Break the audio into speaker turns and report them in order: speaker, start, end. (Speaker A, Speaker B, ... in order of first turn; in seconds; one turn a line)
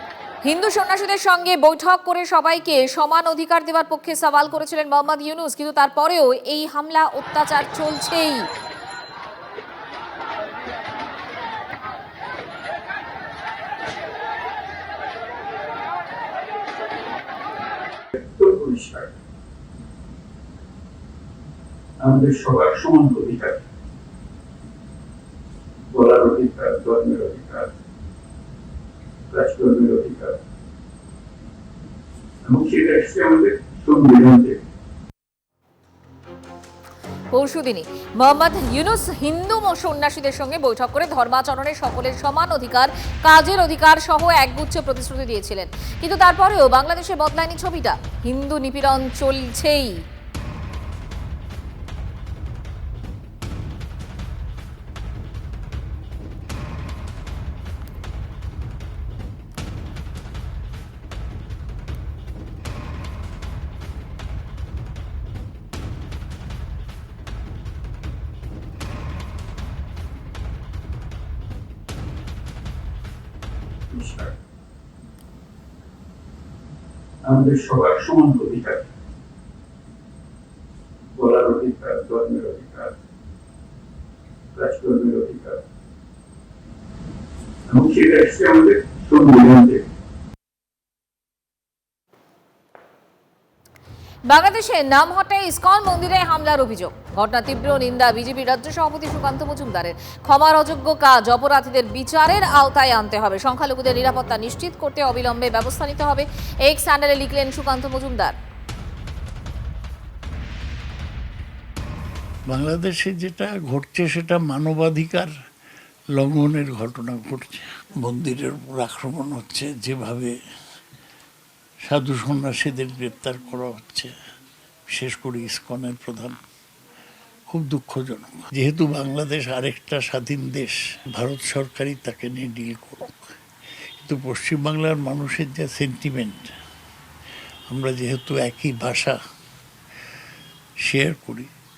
Speaker A: 0.4-8.5
Speaker B: 18.1-19.2
Speaker B: 22.0-23.6
Speaker B: 25.9-27.7
Speaker B: 29.3-30.4
Speaker B: 32.4-34.6
Speaker A: 37.3-50.0
Speaker B: 73.9-74.3
Speaker B: 77.2-78.9
Speaker B: 81.1-82.9
Speaker B: 84.5-85.6
Speaker B: 87.7-89.8
Speaker A: 94.3-108.3
Speaker C: 112.5-115.3
Speaker C: 116.2-120.3
Speaker C: 121.9-124.1
Speaker C: 124.9-126.4
Speaker C: 127.5-133.2
Speaker C: 134.0-136.5
Speaker C: 137.7-139.2
Speaker C: 140.9-141.5